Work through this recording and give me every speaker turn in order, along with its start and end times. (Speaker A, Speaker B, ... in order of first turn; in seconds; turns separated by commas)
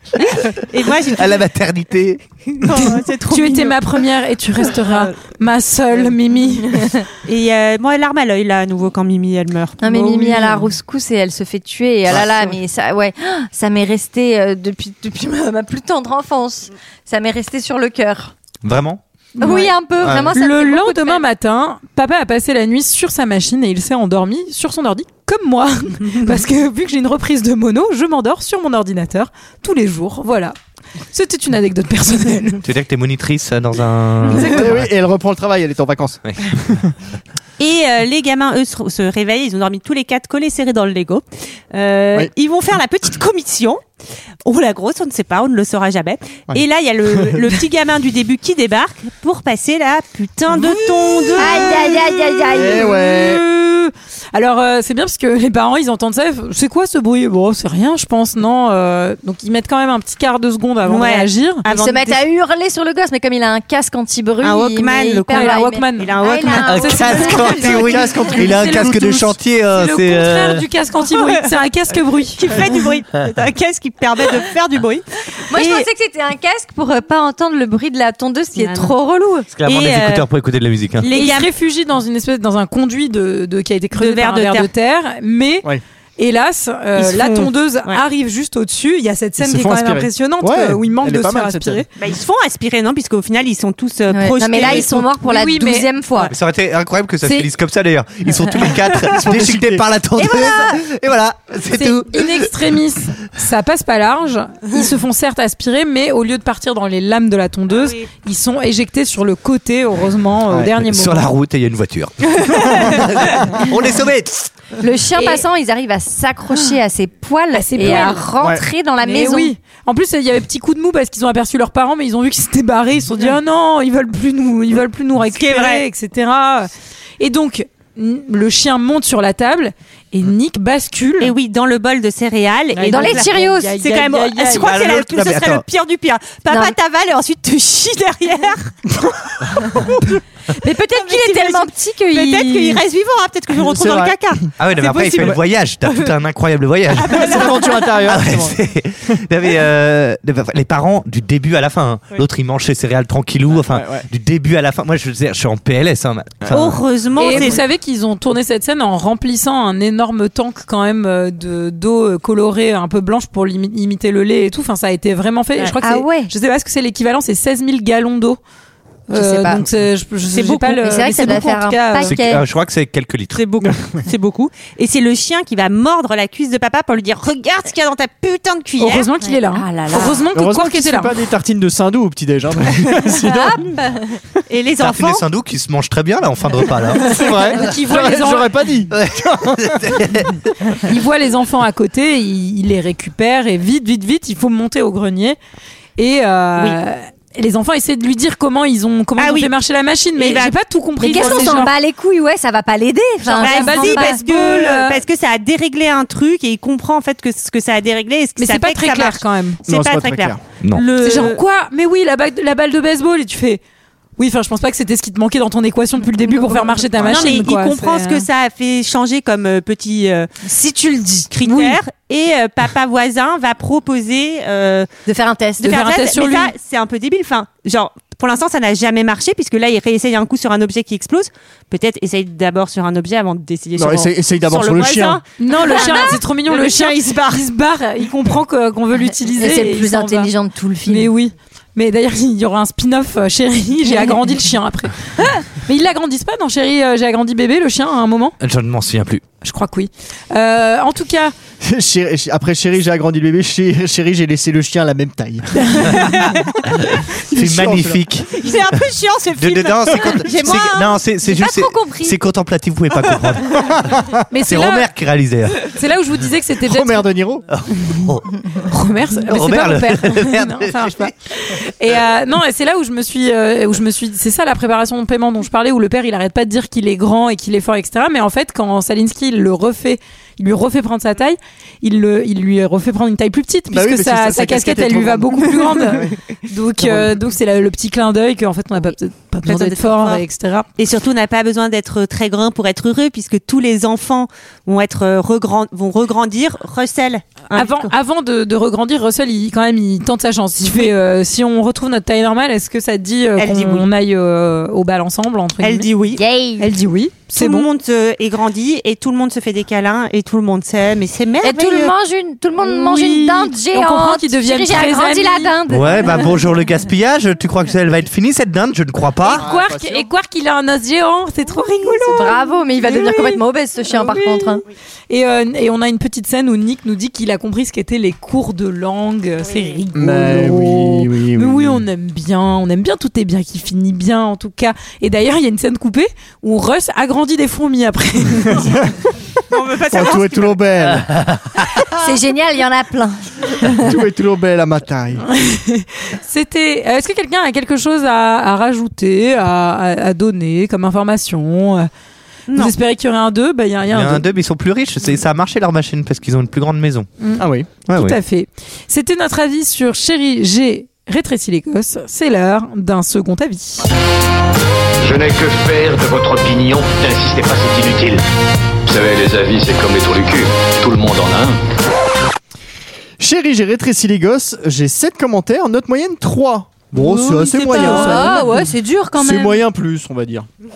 Speaker A: 0.7-1.4, Speaker B: 1.0-2.2, Speaker A: 2.6-4.0, Speaker C: 3.3-6.9, Speaker A: 4.7-5.1, Speaker A: 7.2-10.7, Speaker D: 9.8-18.3, Speaker B: 18.6-19.0, Speaker C: 19.4-19.7, Speaker D: 19.4-21.2, Speaker B: 20.0-20.3, Speaker C: 20.3-30.5, Speaker C: 31.1-32.6, Speaker B: 32.6-34.9, Speaker C: 34.3-34.7, Speaker E: 34.4-36.9, Speaker B: 36.2-36.6, Speaker A: 37.6-43.8, Speaker A: 44.4-51.7, Speaker E: 47.1-47.5, Speaker D: 51.4-53.0, Speaker C: 51.4-61.6, Speaker E: 52.5-53.4, Speaker A: 60.9-62.2, Speaker D: 61.7-67.8, Speaker A: 64.4-67.9, Speaker C: 65.3-67.8, Speaker B: 66.6-70.6, Speaker E: 67.8-69.3, Speaker C: 68.4-72.4, Speaker A: 72.4-75.9, Speaker D: 75.5-79.5, Speaker A: 78.6-78.9, Speaker B: 79.5-81.1, Speaker A: 79.6-80.3, Speaker A: 81.0-81.5, Speaker C: 81.1-91.8, Speaker A: 84.0-84.7, Speaker A: 87.0-88.0, Speaker E: 89.4-91.8, Speaker A: 92.0-95.0, Speaker D: 94.1-96.3, Speaker C: 94.9-95.9, Speaker B: 96.2-102.5, Speaker D: 97.2-97.5, Speaker D: 98.4-98.9, Speaker E: 99.0-99.8, Speaker D: 100.2-100.8, Speaker C: 101.7-111.3, Speaker A: 107.7-108.1, Speaker B: 110.8-114.5, Speaker C: 112.5-113.0, Speaker D: 114.8-119.5, Speaker C: 117.5-118.3, Speaker C: 119.0-126.7, Speaker A: 125.3-125.8, Speaker C: 127.2-131.3, Speaker A: 131.2-138.7, Speaker C: 132.7-134.7, Speaker D: 132.8-133.8, Speaker B: 134.6-135.6, Speaker D: 136.5-136.7, Speaker E: 139.0-140.1, Speaker D: 140.5-142.8, Speaker A: 140.9-145.4, Speaker E: 143.6-144.5, Speaker B: 144.6-156.8, Speaker A: 146.9-147.6, Speaker E: 147.1-148.6, Speaker E: 153.6-154.1, Speaker A: 156.5-157.6, Speaker C: 157.2-168.4, Speaker D: 165.8-166.3, Speaker C: 169.1-172.1, Speaker D: 169.1-169.7, Speaker A: 170.3-170.8, Speaker D: 170.8-172.4, Speaker B: 172.0-173.4, Speaker A: 173.3-179.1, Speaker E: 173.6-174.0, Speaker C: 178.8-181.1, Speaker D: 179.2-180.2, Speaker E: 180.3-183.6, Speaker D: 183.1-184.2, Speaker A: 184.5-185.2, Speaker B: 184.8-187.7, Speaker E: 187.1-189.9, Speaker C: 187.4-188.5, Speaker B: 188.9-190.5, Speaker C: 190.8-195.4, Speaker C: 196.0-201.7, Speaker A: 199.2-199.5, Speaker A: 200.2-201.6, Speaker D: 201.0-204.2, Speaker C: 203.2-205.0, Speaker A: 203.4-211.4, Speaker C: 208.4-209.6, Speaker E: 209.7-210.4, Speaker C: 211.0-213.6, Speaker C: 214.2-218.2, Speaker D: 216.2-217.4, Speaker A: 217.0-220.3, Speaker D: 220.4-221.3, Speaker A: 221.3-224.9, Speaker C: 221.4-221.8, Speaker D: 225.1-225.8, Speaker C: 225.6-226.5, Speaker A: 225.6-237.5, Speaker E: 233.8-235.2, Speaker C: 235.4-240.3, Speaker D: 235.8-236.1, Speaker D: 239.3-241.1, Speaker C: 240.8-248.3, Speaker B: 248.4-249.2, Speaker C: 249.4-251.3, Speaker E: 251.6-255.7, Speaker C: 255.6-255.9, Speaker B: 256.9-258.5, Speaker E: 257.3-258.0, Speaker A: 258.3-260.9, Speaker B: 259.4-263.8, Speaker D: 261.2-262.2, Speaker E: 263.5-264.2, Speaker C: 264.3-264.9, Speaker B: 264.4-265.8, Speaker C: 265.6-267.1, Speaker E: 266.6-267.4, Speaker B: 267.5-268.6, Speaker C: 268.6-290.7, Speaker B: 269.2-271.1, Speaker E: 283.7-286.2, Speaker E: 286.8-287.1, Speaker A: 289.4-290.2, Speaker A: 290.8-297.9, Speaker C: 297.5-305.9, Speaker A: 303.4-303.9, Speaker A: 305.6-306.2, Speaker D: 306.2-306.7, Speaker C: 306.6-307.7, Speaker A: 307.3-311.9, Speaker D: 311.4-316.4, Speaker C: 312.6-315.5, Speaker B: 315.7-319.4, Speaker C: 319.2-338.9, Speaker E: 319.3-320.1, Speaker A: 321.8-322.4, Speaker D: 322.1-324.6, Speaker A: 329.4-329.8, Speaker E: 329.9-331.8, Speaker E: 338.5-338.9, Speaker A: 339.5-340.6, Speaker E: 339.9-341.1, Speaker D: 342.0-343.9, Speaker E: 343.8-345.2, Speaker C: 345.3-351.9, Speaker A: 352.5-352.7, Speaker C: 352.5-354.2, Speaker B: 353.9-357.1, Speaker C: 357.2-363.8, Speaker E: 357.4-357.7, Speaker B: 357.8-358.2, Speaker F: 365.0-368.2, Speaker F: 368.9-371.6, Speaker E: 373.2-378.5, Speaker D: 376.9-379.6, Speaker C: 377.6-378.6, Speaker E: 379.1-380.5